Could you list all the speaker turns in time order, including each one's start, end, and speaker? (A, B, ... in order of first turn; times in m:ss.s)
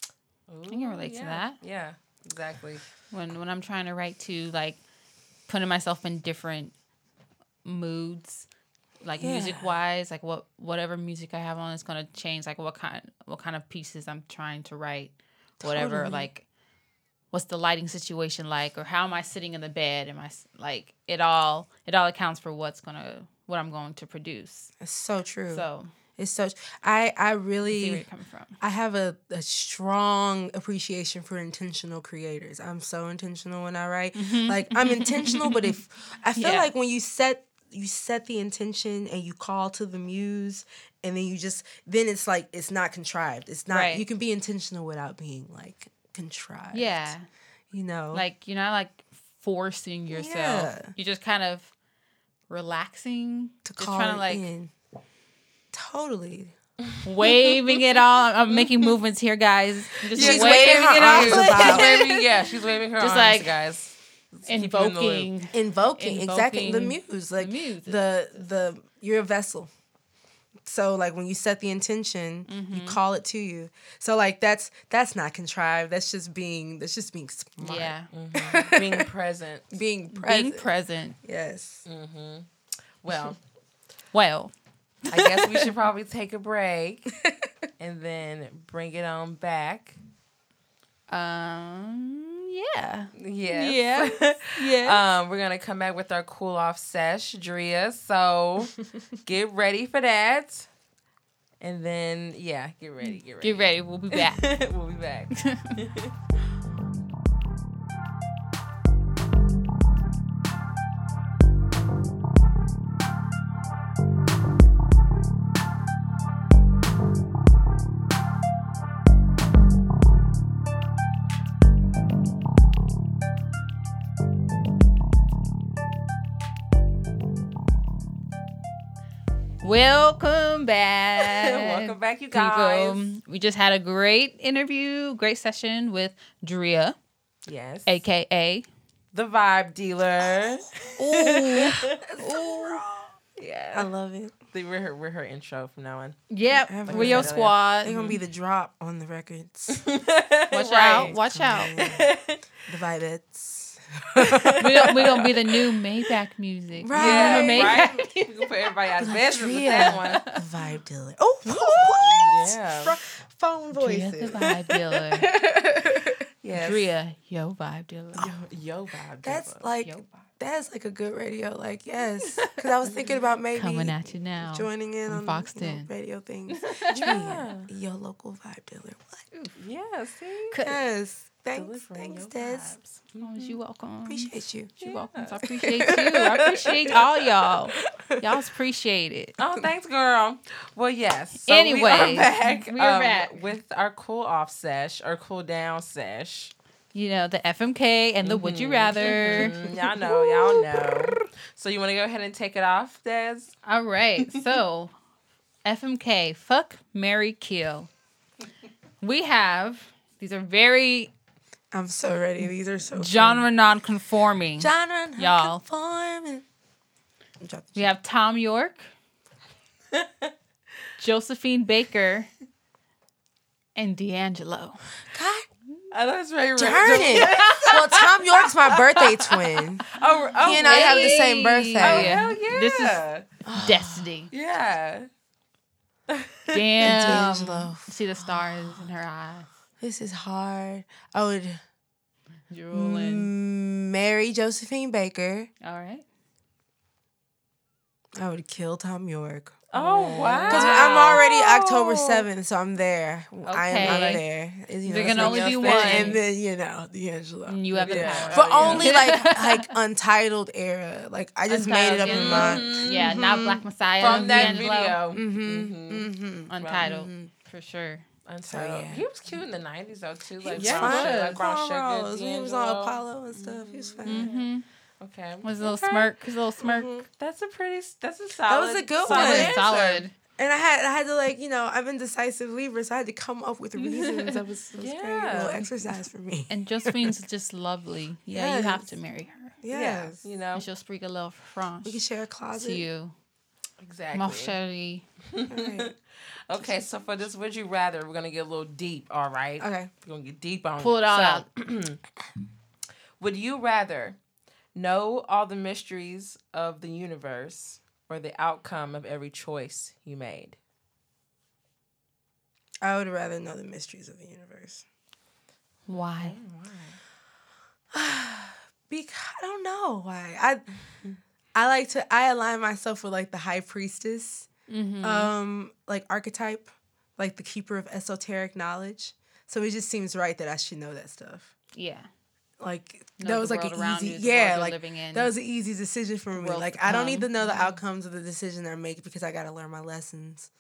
0:00.5-0:02.8 A
0:00.7-0:01.6 B
0:03.1-0:04.8 B
0:05.5-0:06.7 B
0:07.6-0:08.5 B
0:09.0-0:16.4 B
0:09.2-0:09.8 C
0:15.6-0:16.3 C
0:17.3-0:24.7 B
0:24.8-0:25.7 C
0:25.5-0:25.9 B
0:26.2-0:28.1 C
0:27.6-0:28.6 B
0:28.6-0:47.2 C
0:34.2-0:35.8 B
0:36.4-0:36.7 B
0:43.7-0:44.0 B
0:46.7-0:47.3 B
0:47.7-0:48.3 C
0:48.1-0:51.7 B
0:50.1-0:50.9 C
0:52.5-0:54.5 B
0:53.6-0:54.7 C
0:55.7-0:56.5 C
0:57.0-1:02.2 B
0:58.5-0:58.9 A
1:00.1-1:05.3 A
1:00.2-1:02.2 C
1:03.0-1:03.5 B
1:04.5-1:08.0 B
1:05.5-1:09.7 C
1:10.6-1:19.1 C
1:12.5-1:13.0 B
1:17.6-1:18.1 B
1:18.1-1:19.7 A
1:19.7-1:20.7 C
1:20.1-1:21.2 B
1:21.2-1:21.8 C
1:21.9-1:22.5 A
1:23.0-1:23.4 A
1:24.1-1:24.5 B
1:25.1-1:25.7 B
1:25.1-1:27.2 A
1:27.2-1:27.5 C
1:27.8-1:30.0 A
1:31.1-1:35.0 B
1:33.2-1:40.7 A
1:41.6-1:46.1 A
1:43.4-1:44.4 B
1:45.4-1:45.8 B
2:09.6-2:17.0 B
2:11.2-2:13.0 A
2:17.5-2:18.0 A
2:17.9-2:18.7 B
2:19.1-2:22.0 A
2:21.0-2:22.8 B
2:22.0-2:23.2 C
2:23.4-2:23.9 A
2:23.7-2:24.4 C
2:24.5-2:26.2 A
2:26.3-2:28.1 B
2:26.5-2:29.9 C
2:26.9-2:28.2 A
2:29.7-2:31.2 A
2:30.5-2:31.8 B
2:30.9-2:32.1 C
2:31.8-2:32.4 A
2:32.7-2:35.3 C
2:34.2-2:35.3 A
2:34.6-2:38.1 B
2:36.8-2:38.1 C
2:37.0-2:40.3 A
2:39.0-2:44.5 C
2:40.1-2:40.4 B
2:41.5-2:43.0 A
2:43.7-2:45.3 B
2:44.4-2:44.8 A
2:45.2-2:46.2 C
2:46.4-2:46.9 A
2:46.5-2:48.3 B
2:48.2-2:49.6 A
2:49.2-2:59.3 C
2:49.8-2:50.2 B
2:52.8-2:53.2 A
2:53.5-2:55.9 B
2:56.5-2:57.0 B
2:56.9-2:57.7 A
2:59.6-3:00.6 A
3:00.5-3:00.8 B
3:00.6-3:02.8 C
3:01.5-3:03.6 A
3:03.2-3:09.4 B
3:04.1-3:04.7 C
3:04.8-3:07.0 A
3:05.6-3:07.1 C
3:07.9-3:08.4 C
3:09.4-3:16.5 A
3:11.4-3:13.4 B
3:16.9-3:19.6 B
3:18.2-3:23.6 A
3:19.0-3:21.1 C
3:23.6-3:24.9 B
3:24.2-3:24.6 A
3:25.6-3:27.9 B
3:29.0-3:31.1 B
3:31.7-3:33.5 C
3:32.9-3:35.6 B
3:34.6-3:36.4 C
3:37.4-3:37.9 C
3:37.8-3:38.9 B
3:39.9-3:40.3 A
3:41.0-3:42.3 B
3:43.8-3:44.8 B
3:45.1-3:45.5 C
3:45.9-3:53.3 A
3:46.6-3:49.9 C
3:50.4-3:52.3 C
3:50.4-3:53.0 B
3:53.4-3:54.1 C
3:53.6-3:54.3 B
3:54.3-3:55.1 A
3:56.1-3:57.2 A
3:56.5-3:59.5 B
3:56.8-3:58.9 C
3:59.8-4:01.6 C
4:02.5-4:03.3 B
4:02.7-4:05.5 C
4:05.6-4:06.0 B
4:08.2-4:27.3 C
4:09.7-4:12.2 A
4:09.8-4:11.2 B
4:13.4-4:14.3 B
4:13.8-4:14.2 A
4:14.9-4:16.2 B
4:15.0-4:16.2 A
4:17.5-4:19.7 B
4:17.8-4:19.1 A
4:21.5-4:25.0 B
4:22.0-4:23.2 A
4:24.0-4:27.0 A
4:26.5-4:28.0 B
4:28.3-4:36.2 A
4:28.5-4:29.1 C
4:30.4-4:34.4 C
4:30.5-4:31.4 B
4:34.0-4:34.6 B
4:35.4-4:36.9 B
4:36.6-4:37.1 C
4:37.2-4:40.0 A
4:38.5-4:47.2 C
4:39.1-4:40.1 B
4:43.8-4:44.4 B
4:44.8-4:45.6 A
4:46.5-4:49.6 B
4:48.3-4:48.9 C
4:49.6-4:50.2 C
4:49.7-4:50.6 A
4:50.5-4:52.0 B
4:51.8-4:52.9 C
4:52.5-4:53.1 B
4:53.8-4:54.6 A
4:54.1-4:55.0 B
4:55.3-4:56.0 A
4:55.5-4:55.9 C
4:56.5-5:02.0 A
4:56.6-4:57.1 C
4:59.6-4:59.9 C
5:00.8-5:01.5 B
5:03.2-5:04.2 A
5:04.8-5:10.6 A
5:12.8-5:14.8 C
5:15.9-5:16.4 B
5:16.2-5:17.0 A
5:17.9-5:20.6 C
5:21.6-5:24.5 C
5:24.7-5:25.3 B
5:25.0-5:31.5 C
5:31.8-5:32.1 B
5:32.6-5:40.5 C
5:33.2-5:35.3 B
5:36.3-5:37.8 B